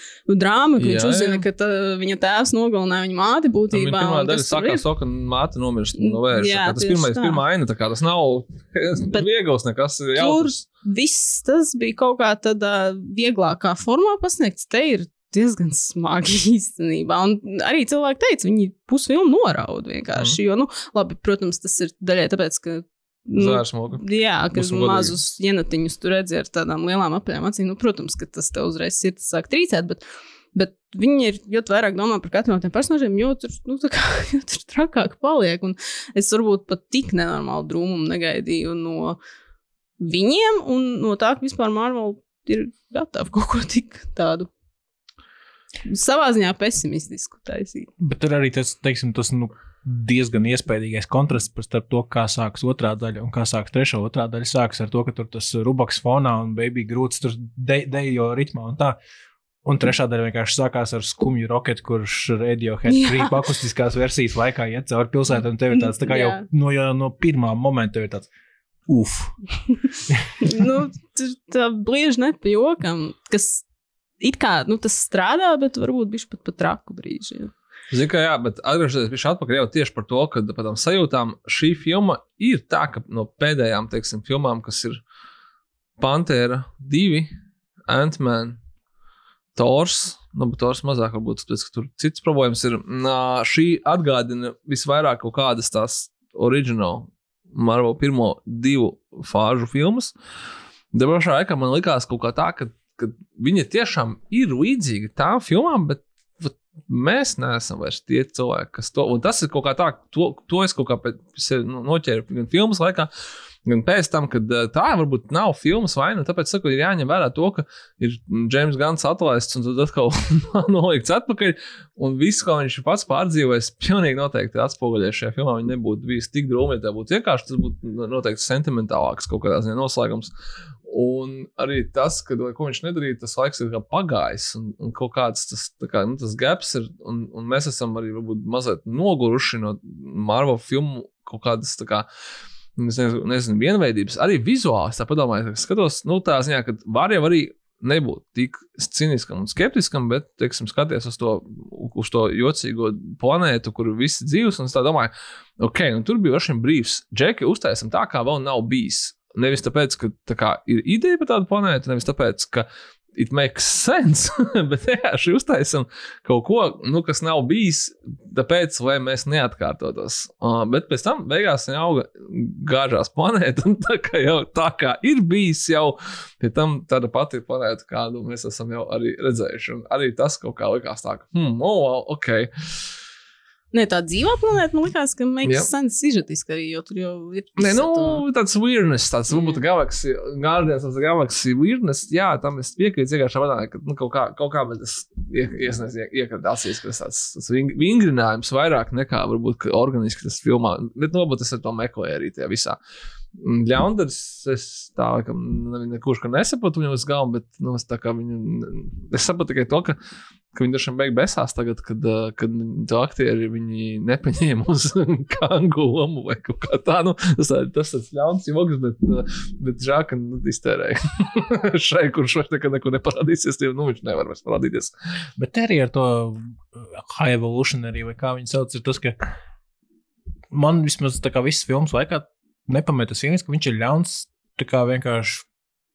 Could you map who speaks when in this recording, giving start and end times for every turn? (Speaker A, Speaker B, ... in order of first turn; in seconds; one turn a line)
Speaker A: 0.3-4.8
Speaker B: 0.8-1.4
Speaker B: 3.7-10.6
Speaker A: 6.0-7.4
Speaker A: 10.2-30.0
Speaker B: 23.4-25.1
Speaker A: 30.6-39.2
Speaker A: 40.0-44.5
Speaker A: 45.9-47.9
Speaker C: 48.0-59.0
Speaker C: 59.6-68.3
Speaker A: 62.9-63.4
Speaker A: 65.7-66.5
Speaker C: 68.9-69.4
Speaker A: 70.4-73.6
Speaker A: 74.2-77.5
Speaker B: 77.9-85.0
Speaker B: 86.0-87.3
Speaker B: 87.9-88.6
Speaker B: 89.5-100.1
Speaker B: 100.9-113.1
Speaker B: 113.7-130.3
Speaker B: 130.9-142.1
Speaker B: 142.8-182.5
Speaker A: 183.7-188.2
Speaker B: 187.6-202.8
Speaker A: 189.3-189.6
Speaker B: 203.4-210.0
Speaker B: 210.5-224.9
Speaker C: 225.4-229.3
Speaker C: 230.5-235.5